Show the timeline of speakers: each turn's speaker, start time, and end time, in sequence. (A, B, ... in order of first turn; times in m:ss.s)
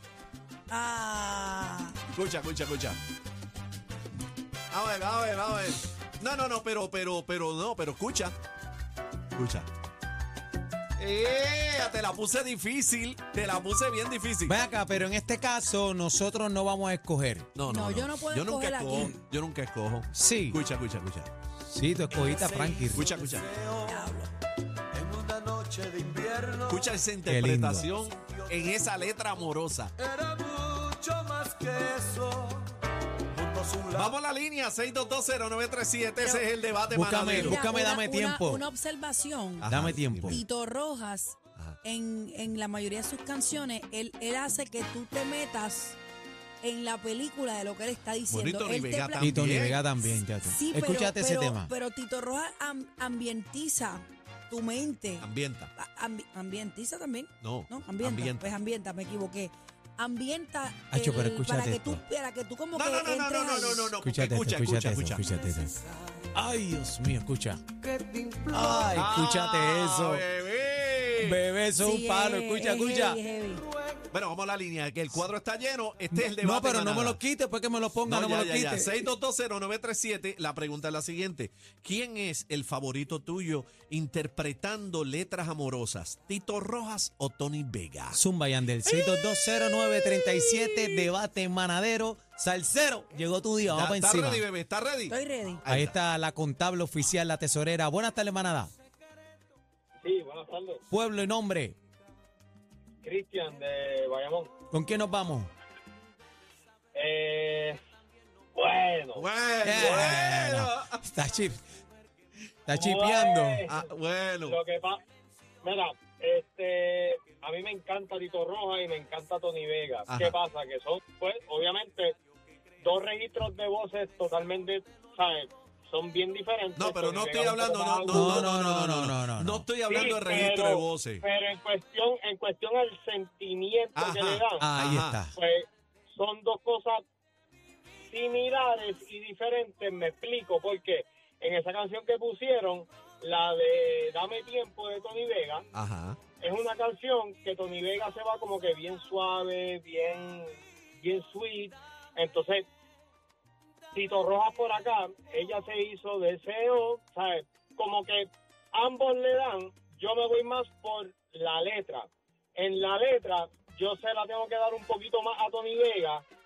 0:00.7-0:02.0 A
0:02.1-0:03.0 B
0:04.7-0:08.3 B
0:09.3-0:09.7 B
0:11.0-0:14.6 B
0:14.5-0:17.5 C
0:17.6-0:21.3 B
0:17.7-0:19.1 A
0:20.1-0:20.6 C
0:21.6-0:23.1 C
0:22.4-0:24.0 D
0:22.9-0:23.5 B
0:23.8-0:24.3 A
0:25.0-0:27.0 D
0:26.7-0:29.9 B
0:27.2-0:27.9 C
0:28.2-0:28.5 D
0:30.0-0:32.7 D
0:33.4-0:34.1 D
0:33.9-0:37.6 B
0:36.2-0:36.5 A
0:36.9-0:38.6 C
0:37.3-0:39.7 A
0:39.6-0:40.4 B
0:39.7-0:40.4 C
0:40.2-0:46.0 A
0:46.6-0:49.3 A
0:48.3-0:49.8 B
0:49.2-0:51.7 C
0:50.1-1:04.0 A
0:55.2-0:55.7 B
0:57.4-0:58.5 B
1:00.9-1:02.0 C
1:02.8-1:05.3 B
1:04.0-1:05.7 C
1:06.3-1:07.6 C
1:08.0-1:08.7 D
1:08.5-1:10.2 C
1:08.9-1:11.4 B
1:11.2-1:13.2 C
1:11.8-1:13.6 A
1:14.1-1:17.2 B
1:16.1-1:19.0 C
1:18.1-1:28.2 B
1:28.1-1:34.4 C
1:33.7-1:35.9 B
1:35.1-1:35.6 A
1:35.7-1:38.7 C
1:40.0-1:40.8 E
1:40.9-1:41.8 C
1:43.0-1:44.5 E
1:44.7-1:45.5 C
1:46.9-1:47.8 E
1:48.6-1:50.2 E
1:49.1-1:51.0 B
1:49.6-1:51.6 C
1:52.7-1:53.7 C
1:52.7-1:53.8 E
1:53.7-1:54.6 B
1:54.5-1:55.0 E
1:55.6-2:02.2 E
2:00.1-2:00.4 B
2:02.8-2:08.4 E
2:06.8-2:11.2 B
2:08.1-2:09.7 C
2:09.9-2:14.7 E
2:14.0-2:15.2 B
2:14.6-2:15.3 C
2:15.4-2:17.0 E
2:18.1-2:25.7 E
2:25.7-2:26.2 B
2:26.4-2:32.6 E
2:33.9-2:46.2 E